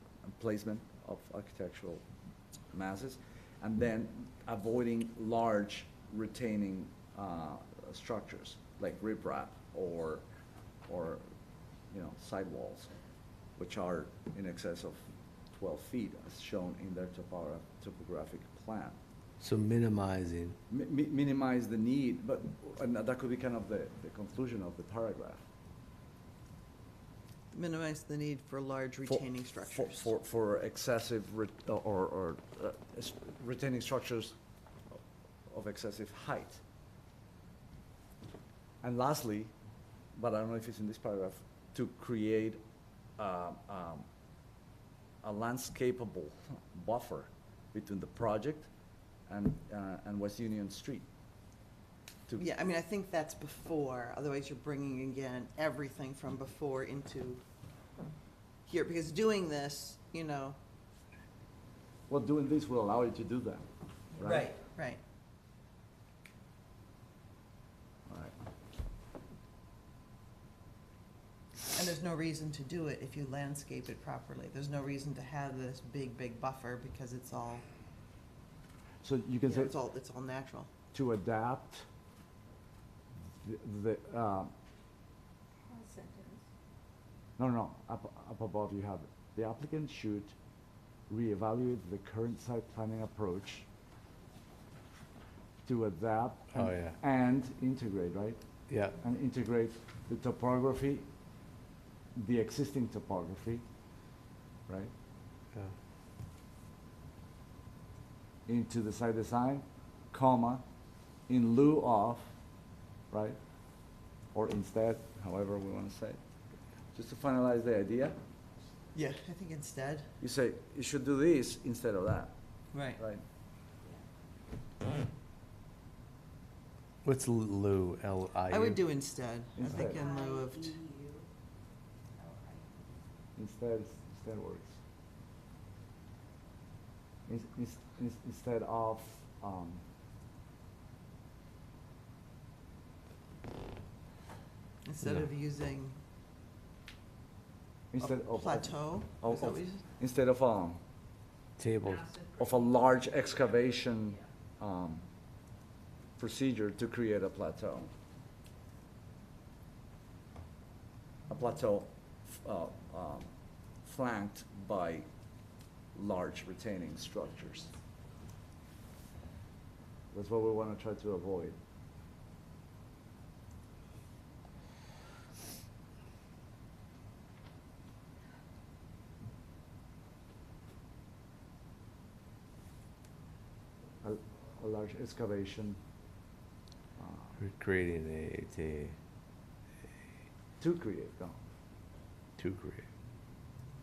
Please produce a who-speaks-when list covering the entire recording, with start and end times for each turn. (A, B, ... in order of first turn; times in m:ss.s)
0:00.2-0:02.0 A
0:02.7-0:10.3 A
0:10.9-0:11.2 A
0:11.9-0:12.9 A
0:13.6-0:19.0 A
0:19.4-0:20.6 B
0:20.7-0:25.4 A
0:27.5-0:30.1 C
0:29.1-0:34.3 A
0:35.5-0:36.6 A
0:38.8-0:39.5 A
0:40.1-0:42.6 A
0:43.2-0:44.0 A
0:45.2-0:48.7 A
0:49.3-0:51.0 A
0:52.4-0:57.4 C
0:58.7-1:00.6 C
1:02.1-1:04.5 A
1:04.2-1:05.0 C
1:08.1-1:08.3 A
1:11.7-1:17.6 C
1:19.0-1:19.7 A
1:19.4-1:20.7 C
1:20.9-1:21.9 A
1:23.4-1:24.5 A
1:25.7-1:26.4 D
1:27.4-1:30.4 A
1:31.1-1:33.7 A
1:35.7-1:38.4 A
1:36.5-1:37.0 B
1:38.7-1:39.0 B
1:38.9-1:41.1 A
1:42.2-1:43.6 A
1:48.4-1:50.6 A
1:51.3-1:52.3 A
1:53.1-1:53.4 A
1:54.3-1:56.2 A
1:56.9-1:58.2 A
1:58.9-2:00.1 C
2:00.2-2:02.3 A
2:02.7-2:03.0 C
2:02.9-2:03.2 A
2:07.0-2:08.8 B
2:08.5-2:10.8 C
2:09.6-2:10.0 A
2:09.9-2:11.2 D
2:12.2-2:12.6 D
2:13.4-2:14.8 A
2:17.3-2:19.8 A
2:24.8-2:26.0 C
2:27.9-2:30.8 A
2:28.0-2:29.8 C
2:31.6-2:32.1 B
2:32.3-2:35.0 A
2:36.2-2:37.9 A
2:41.3-2:43.3 A
2:43.8-2:45.1 A
2:45.9-2:47.7 A
2:50.1-2:51.6 A
3:04.0-3:05.8 A
3:07.0-3:07.3 A
3:07.4-3:09.0 B
3:10.6-3:11.4 A
3:12.4-3:12.9 B